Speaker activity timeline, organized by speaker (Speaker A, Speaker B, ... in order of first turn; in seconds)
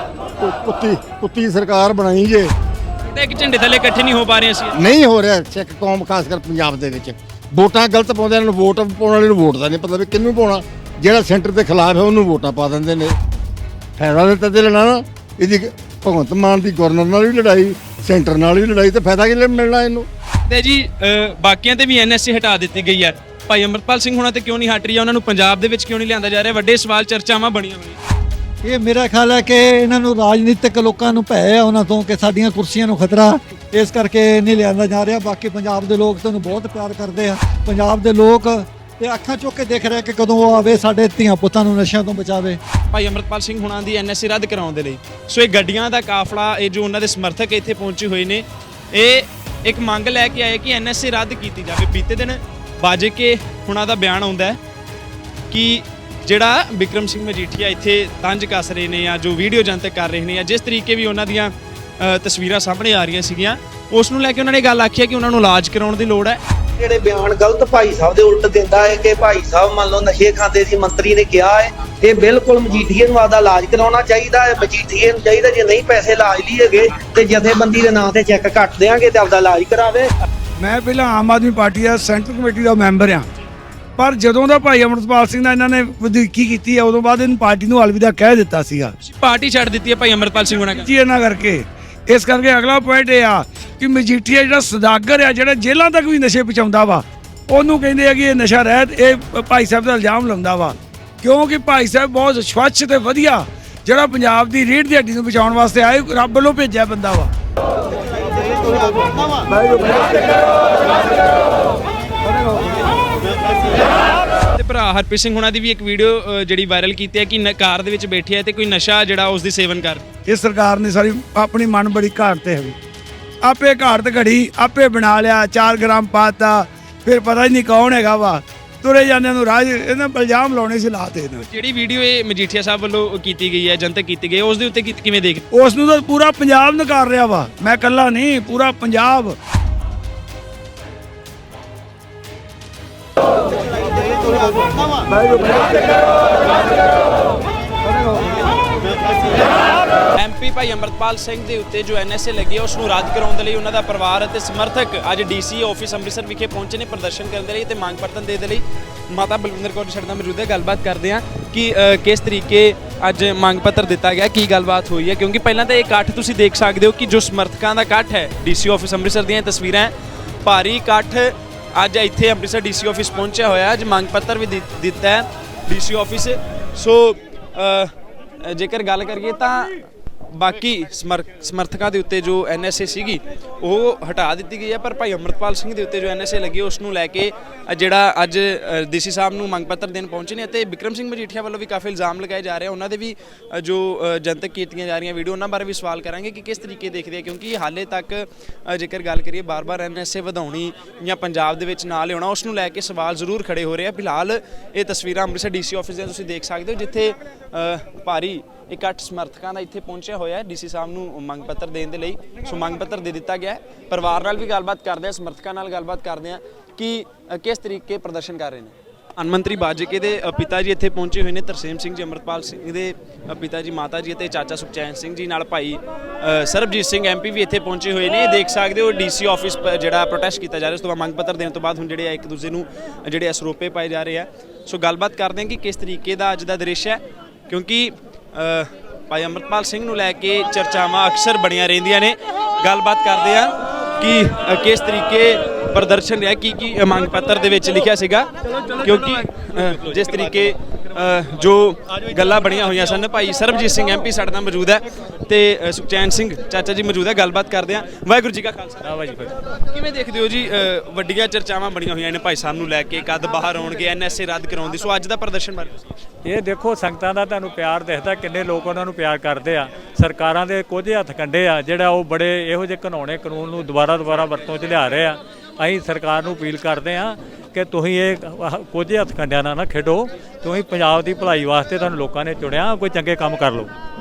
Speaker A: 0.4-2.5, 4.7-13.1, 14.0-20.1
Speaker B: 3.0-4.8, 20.5-28.0, 42.9-54.6, 55.5-66.4, 89.0-90.9, 114.5-120.0, 131.5-135.4, 150.1-169.9, 170.4-177.9, 178.4-258.9, 259.7-265.9
Speaker C: 28.6-42.6
Speaker D: 66.8-80.1
Speaker E: 80.6-83.3, 84.0-88.9, 90.5-107.3, 109.5-110.1, 120.2-122.8, 123.4-131.4, 135.5-139.3, 145.3-145.6
Speaker F: 258.8-259.4, 266.2-283.7